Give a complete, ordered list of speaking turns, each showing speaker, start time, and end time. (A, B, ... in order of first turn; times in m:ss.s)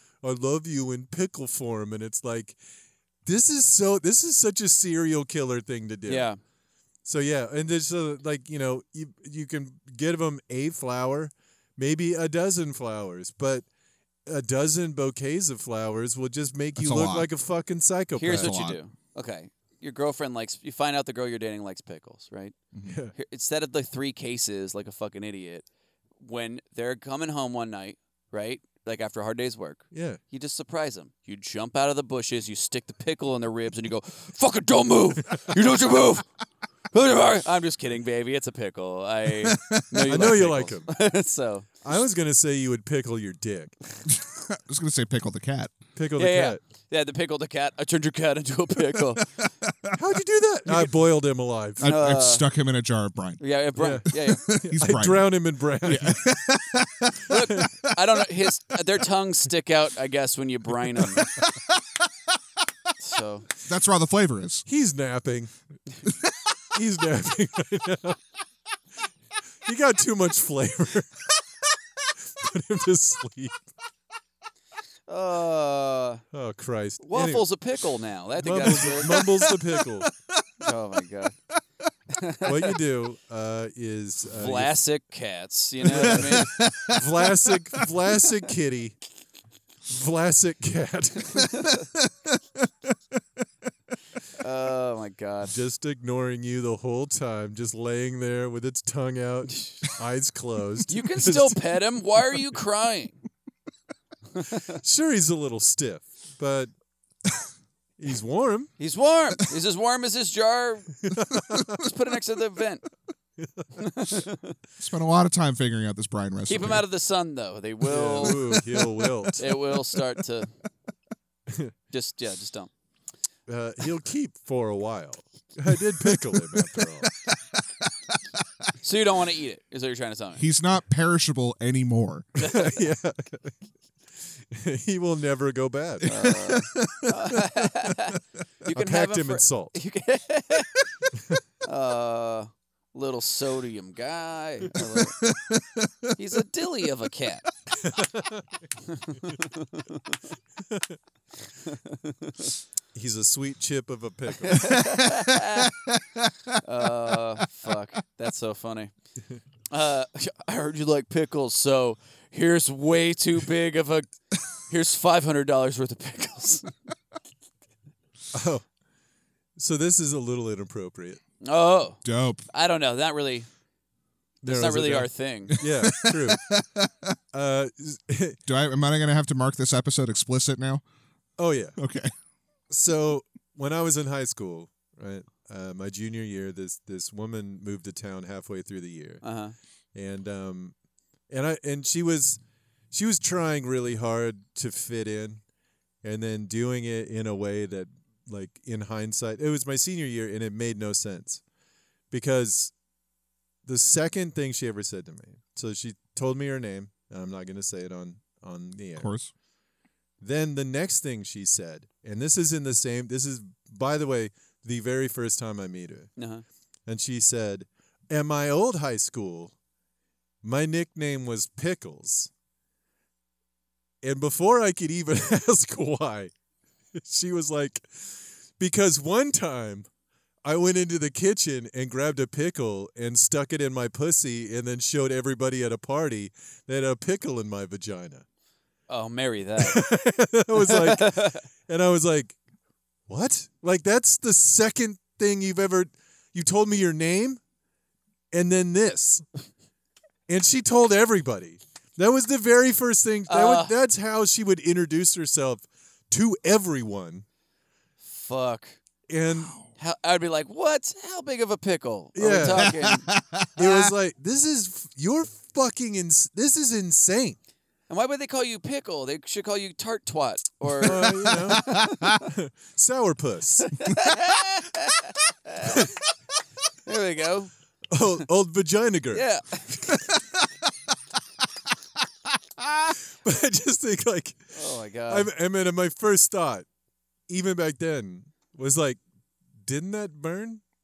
0:00.2-0:02.6 A
0:03.2-0:06.3 A
0:06.0-0:06.4 B
0:07.0-0:13.6 A
0:14.2-0:18.5 A
0:16.8-0:17.3 C
0:18.2-0:22.6 B
0:18.2-0:18.8 C
0:22.8-0:23.1 A
0:23.1-0:25.6 B
0:26.2-0:36.2 B
0:29.9-0:30.2 A
0:36.9-0:41.7 B
0:39.4-0:40.3 C
0:40.1-0:40.9 A
0:41.8-0:43.7 A
0:44.1-0:45.8 C
0:46.0-0:46.6 A
0:46.2-0:49.3 B
0:49.6-0:49.9 C
0:49.9-0:51.9 A
0:51.8-0:53.4 C
0:51.8-0:52.4 B
0:53.4-0:54.4 B
0:53.8-0:56.3 A
0:54.1-0:57.8 C
0:57.3-1:01.3 B
1:03.0-1:03.5 B
1:03.6-1:04.6 C
1:04.6-1:05.5 A
1:06.7-1:08.2 A
1:09.6-1:11.1 A
1:12.3-1:13.6 A
1:15.1-1:16.2 B
1:16.3-1:17.5 A
1:17.0-1:19.2 B
1:18.4-1:20.1 A
1:19.1-1:20.0 C
1:20.6-1:21.4 B
1:22.1-1:22.7 B
1:22.4-1:24.8 A
1:24.4-1:26.5 B
1:25.8-1:29.0 A
1:26.0-1:27.9 C
1:29.9-1:31.6 A
1:34.4-1:35.5 B
1:35.4-1:41.6 A
1:40.9-1:43.2 B
1:44.4-1:44.7 B
1:44.8-1:46.7 A
1:48.0-1:48.7 A
1:48.8-1:50.9 B
1:51.0-1:51.9 A
1:51.8-1:52.8 B
1:53.4-1:54.2 A
1:53.8-1:54.5 B
1:54.8-1:56.8 C
1:56.5-1:58.5 B
1:57.8-1:59.6 A
1:59.4-2:00.5 B
2:01.5-2:01.7 A
2:01.9-2:02.7 B
2:03.5-2:07.1 A
2:06.1-2:06.6 C
2:08.8-2:10.4 B
2:10.4-2:12.3 C
2:12.4-2:13.6 A
2:12.4-2:12.7 B
2:14.2-2:16.1 A
2:16.0-2:20.7 B
2:16.2-2:17.1 C
2:18.7-2:19.8 A
2:21.6-2:25.2 B
2:24.9-2:25.9 C
2:26.2-2:27.4 B
2:27.8-2:28.6 A
2:28.9-2:30.2 B
2:30.7-2:31.0 A
2:31.6-2:32.5 B
2:32.9-2:34.8 A
2:34.5-2:35.7 B
2:36.6-2:38.9 B
2:39.7-2:46.7 B
2:48.3-2:48.7 A
2:49.6-2:51.2 A
2:51.4-2:53.5 B
2:52.0-2:52.5 C
2:54.4-2:55.6 B
2:54.4-2:56.4 A
2:55.6-2:56.9 C
2:57.3-2:58.4 A
2:58.5-3:00.8 C
3:01.4-3:01.8 A
3:01.8-3:02.1 C
3:02.7-3:09.2 A
3:09.2-3:09.5 B
3:09.9-3:10.8 A
3:11.3-3:15.4 A
3:16.0-3:21.4 A
3:22.1-3:22.7 A
3:23.6-3:29.1 A
3:29.0-3:29.3 C
3:30.2-3:36.1 A
3:36.2-3:36.4 B
3:36.8-3:39.5 A
3:40.4-3:42.3 A
3:44.0-3:46.3 A
3:46.9-3:49.9 A
3:50.4-3:58.2 A
3:58.9-3:59.9 B
3:59.6-4:02.4 A
4:00.5-4:01.4 B
4:03.1-4:07.4 A
4:08.3-4:09.2 A
4:10.3-4:17.2 A
4:13.3-4:13.7 B
4:18.0-4:18.8 B
4:19.1-4:19.5 A
4:19.8-4:23.0 B
4:22.1-4:22.8 A
4:22.4-4:23.9 C
4:23.6-4:27.4 A
4:27.9-4:32.2 B
4:30.8-4:31.7 A
4:30.8-4:32.0 C
4:32.2-4:33.7 A
4:33.7-4:35.8 B
4:36.8-4:37.5 B
4:37.9-4:39.2 A
4:39.1-4:39.8 B
4:42.6-4:42.9 C
4:43.1-4:46.7 A
4:44.5-4:45.3 B
4:47.3-4:49.0 A
4:49.6-4:50.6 A